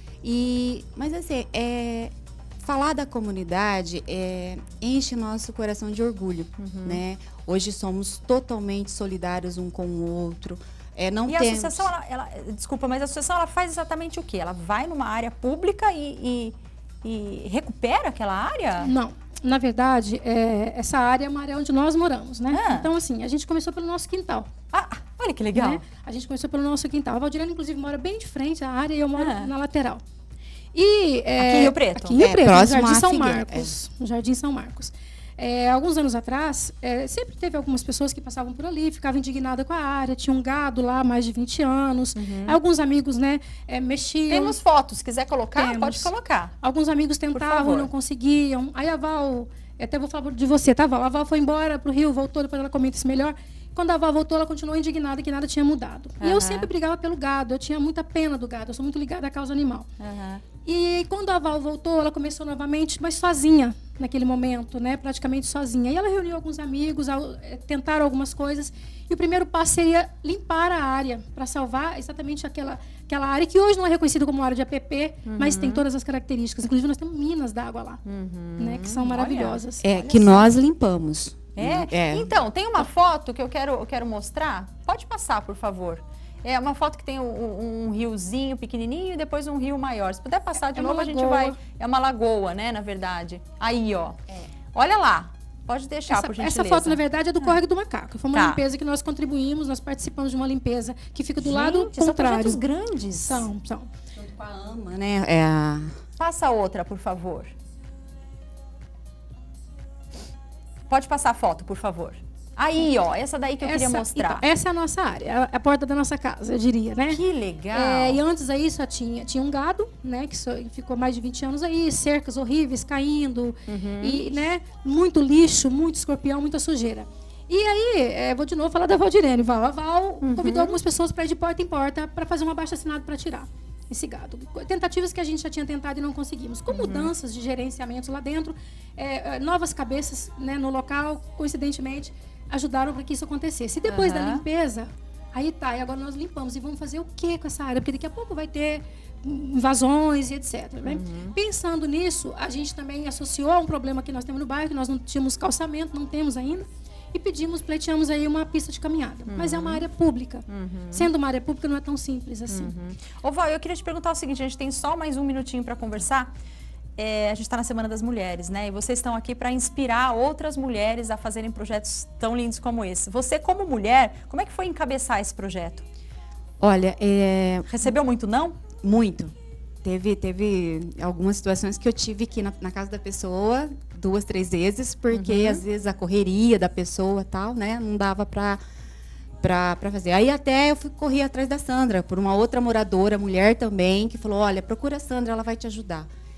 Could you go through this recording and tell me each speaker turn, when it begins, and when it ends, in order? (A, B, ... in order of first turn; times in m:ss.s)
0:00.2-0:11.9 A
0:06.6-0:07.0 B
0:11.3-0:18.9 B
0:18.8-0:24.5 C
0:22.5-0:22.9 B
0:24.7-0:25.8 B
0:25.5-0:30.0 C
0:29.2-0:29.5 B
0:30.7-0:44.6 C
0:31.4-0:32.2 B
0:32.2-0:33.7 A
0:42.2-0:42.6 B
0:44.3-0:46.5 B
0:45.5-0:59.9 C
0:47.3-0:47.9 B
0:56.2-0:56.7 B
1:00.0-1:00.4 B
1:00.6-1:18.0 C
1:15.2-1:15.8 B
1:18.0-1:20.4 B
1:18.6-1:20.1 C
1:19.8-1:22.3 A
1:21.5-1:34.2 B
1:30.7-1:31.6 C
1:34.7-1:37.6 B
1:36.1-1:43.9 C
1:38.3-1:38.6 B
1:41.4-1:43.5 B
1:44.1-1:45.9 A
1:46.2-1:47.5 B
1:50.9-1:54.4 B
1:53.6-1:57.2 C
1:57.1-1:58.2 B
1:57.7-2:42.7 C
2:03.7-2:04.4 B
2:10.2-2:10.8 B
2:16.7-2:17.1 B
2:23.8-2:24.4 B
2:30.8-2:31.4 B
2:39.3-2:39.8 B
2:40.5-2:41.1 B
2:42.5-2:46.3 B
2:47.0-2:55.8 B
2:56.6-2:57.7 A
2:57.7-2:58.6 B
2:58.8-3:08.6 A
3:05.1-3:05.6 B
3:09.4-3:16.1 A